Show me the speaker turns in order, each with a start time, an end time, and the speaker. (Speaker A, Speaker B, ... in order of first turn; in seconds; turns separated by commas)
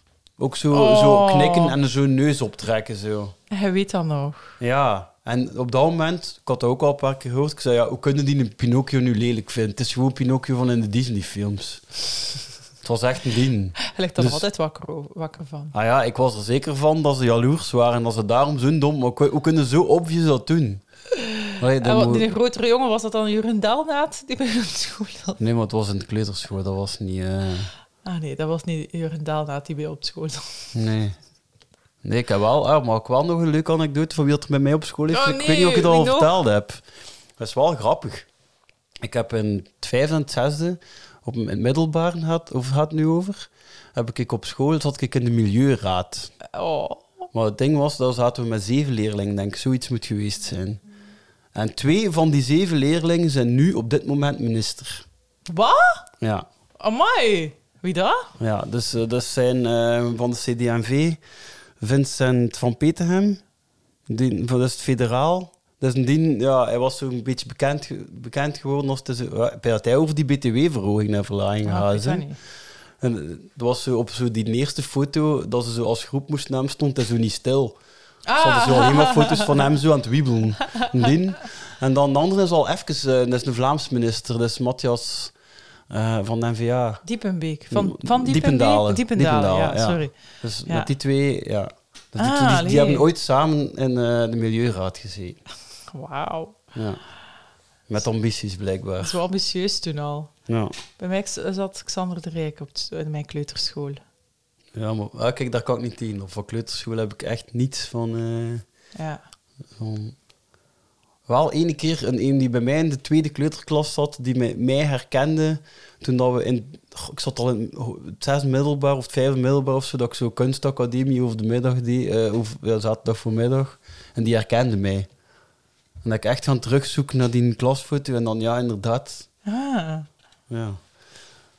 Speaker A: 0.4-3.4, Speaker B: 0.7-1.8, Speaker B: 3.5-4.5, Speaker A: 4.6-11.9, Speaker A: 12.8-14.4, Speaker B: 13.8-15.7, Speaker A: 15.7-20.8, Speaker B: 21.2-25.4, Speaker A: 21.6-22.3, Speaker A: 25.4-27.7, Speaker B: 28.0-30.7, Speaker A: 30.7-31.2, Speaker A: 32.0-36.8, Speaker B: 35.1-36.3, Speaker A: 37.4-38.3, Speaker A: 39.0-46.3, Speaker B: 46.5-47.2, Speaker A: 47.3-50.8, Speaker A: 51.5-55.0, Speaker B: 55.5-56.0, Speaker A: 56.2-56.5, Speaker B: 56.8-58.3, Speaker A: 58.4-61.2, Speaker A: 61.8-63.4, Speaker A: 64.1-72.2, Speaker B: 71.7-72.4, Speaker A: 73.0-77.8, Speaker B: 78.3-79.7, Speaker A: 78.4-85.3, Speaker A: 85.9-87.0, Speaker B: 87.0-90.9, Speaker A: 87.7-95.4, Speaker B: 92.2-93.1, Speaker B: 95.9-96.6, Speaker A: 96.8-97.0, Speaker A: 97.9-99.2, Speaker B: 99.0-100.3, Speaker A: 100.5-100.8, Speaker B: 101.0-104.0, Speaker A: 104.8-108.7, Speaker B: 109.0-109.2, Speaker A: 109.8-110.2, Speaker A: 111.3-125.1, Speaker A: 126.0-129.3, Speaker B: 129.5-130.1, Speaker A: 130.5-130.8